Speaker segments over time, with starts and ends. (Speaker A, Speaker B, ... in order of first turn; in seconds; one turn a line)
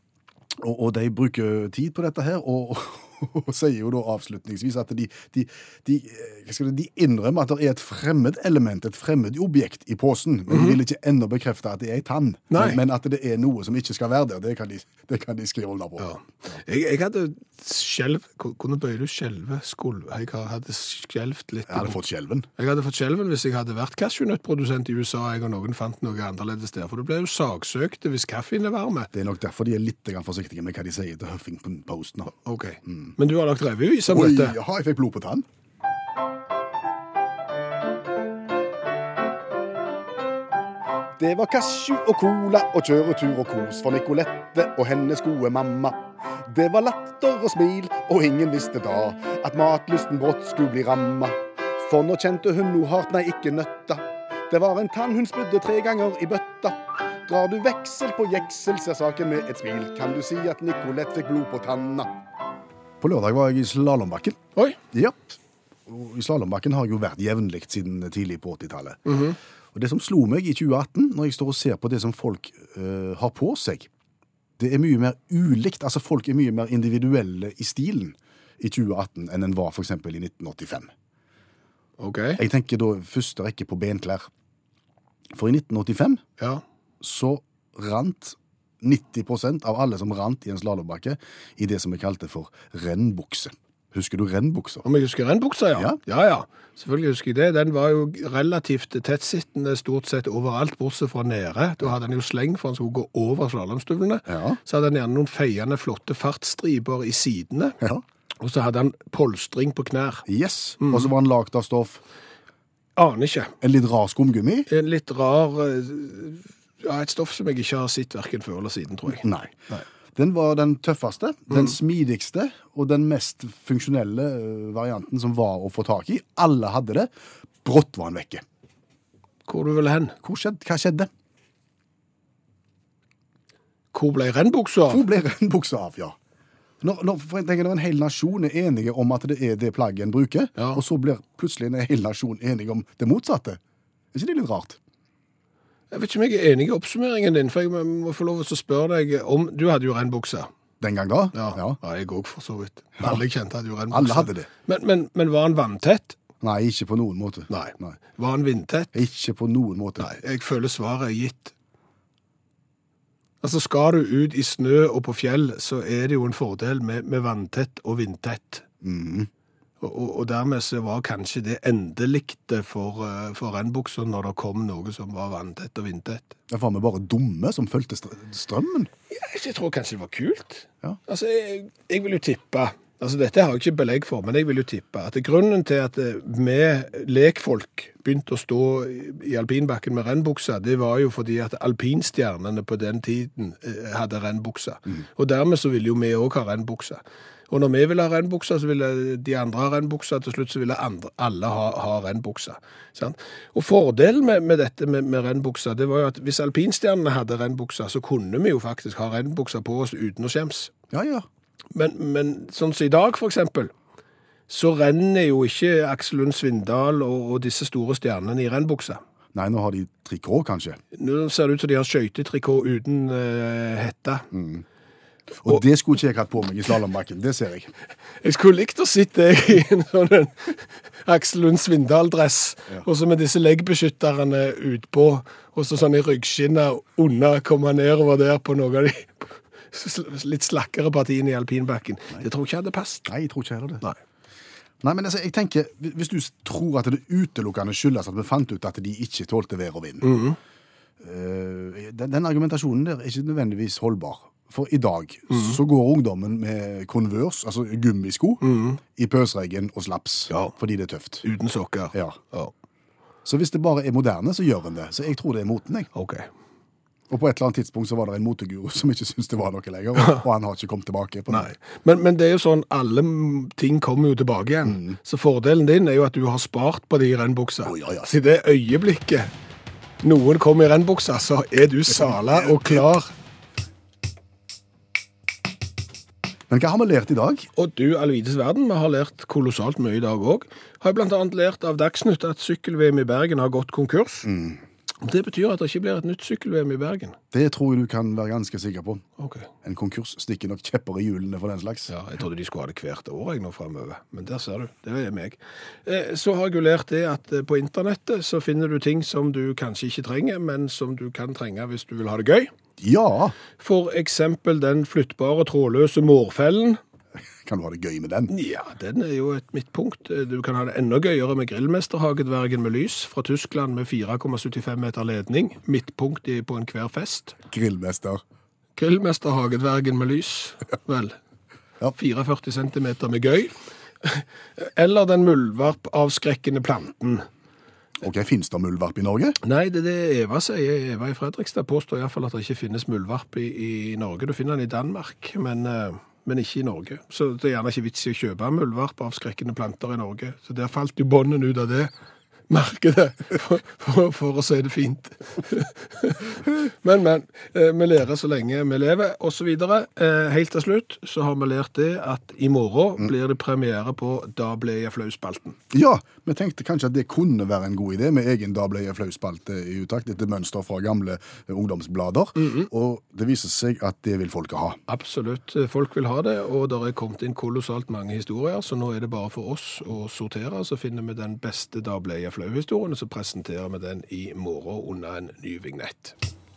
Speaker A: 0.6-16.1
Speaker B: 10.5-10.8
Speaker B: 12.5-12.8
Speaker B: 16.0-22.0
Speaker A: 21.7-22.5
Speaker B: 22.6-29.1
Speaker A: 29.1-32.3
Speaker B: 32.4-34.6
Speaker A: 32.9-33.1
Speaker A: 34.1-35.5
Speaker A: 41.2-62.1
Speaker A: 63.0-64.4
Speaker A: 64.9-69.2
Speaker B: 69.1-69.4
Speaker A: 69.7-73.9
Speaker A: 74.6-80.9
Speaker B: 82.0-82.4
Speaker A: 82.4-84.3
Speaker A: 85.3-86.2
Speaker A: 87.0-94.8
Speaker B: 94.8-107.8
Speaker A: 104.3-104.6
Speaker B: 108.4-110.3
Speaker A: 110.3-112.0
Speaker B: 110.8-111.1
Speaker B: 113.0-113.5
Speaker A: 113.6-114.7
Speaker B: 114.7-119.8
Speaker A: 119.2-127.1
Speaker A: 127.6-128.4
Speaker B: 129.5-130.2
Speaker A: 130.2-131.1
Speaker B: 133.9-135.0
Speaker A: 134.9-136.2
Speaker A: 136.8-143.6
Speaker A: 144.1-144.8
Speaker B: 145.9-150.5
Speaker A: 150.8-151.8
Speaker B: 151.3-156.2
Speaker A: 153.9-154.5
Speaker A: 156.4-158.0
Speaker B: 157.5-158.9
Speaker A: 158.9-160.2
Speaker B: 160.0-161.5
Speaker B: 163.4-168.7
Speaker A: 168.8-169.3
Speaker B: 169.8-176.4
Speaker A: 176.5-178.9
Speaker B: 179.1-210.7
Speaker A: 210.9-211.3
Speaker B: 211.7-213.7
Speaker B: 214.5-219.0
Speaker A: 219.3-220.8
Speaker B: 220.9-224.3
Speaker A: 224.3-224.6
Speaker A: 225.4-227.7
Speaker B: 228.2-243.1
Speaker A: 243.1-243.8
Speaker A: 244.8-250.2
Speaker B: 250.0-250.4
Speaker A: 251.0-261.2
Speaker B: 255.3-255.6
Speaker B: 258.4-258.8
Speaker B: 260.3-260.6
Speaker B: 261.2-262.5
Speaker A: 261.9-262.2
Speaker A: 263.2-265.9
Speaker B: 265.9-266.3
Speaker A: 267.1-271.5
Speaker B: 271.3-279.3
Speaker A: 274.7-275.0
Speaker A: 277.7-278.1
Speaker B: 280.0-283.1
Speaker A: 286.5-287.5
Speaker B: 287.6-294.3
Speaker A: 294.2-294.6
Speaker B: 295.0-297.2
Speaker A: 297.3-299.0
Speaker B: 299.2-299.5
Speaker A: 299.6-301.9
Speaker B: 301.9-312.5
Speaker A: 312.8-313.4
Speaker B: 313.6-316.8
Speaker A: 317.4-318.3
Speaker B: 318.3-327.4
Speaker A: 327.5-328.2
Speaker B: 328.8-331.2
Speaker B: 331.9-337.3
Speaker A: 338.0-339.4
Speaker B: 339.4-351.9
Speaker B: 352.5-365.6
Speaker A: 365.7-374.8
Speaker B: 374.9-386.2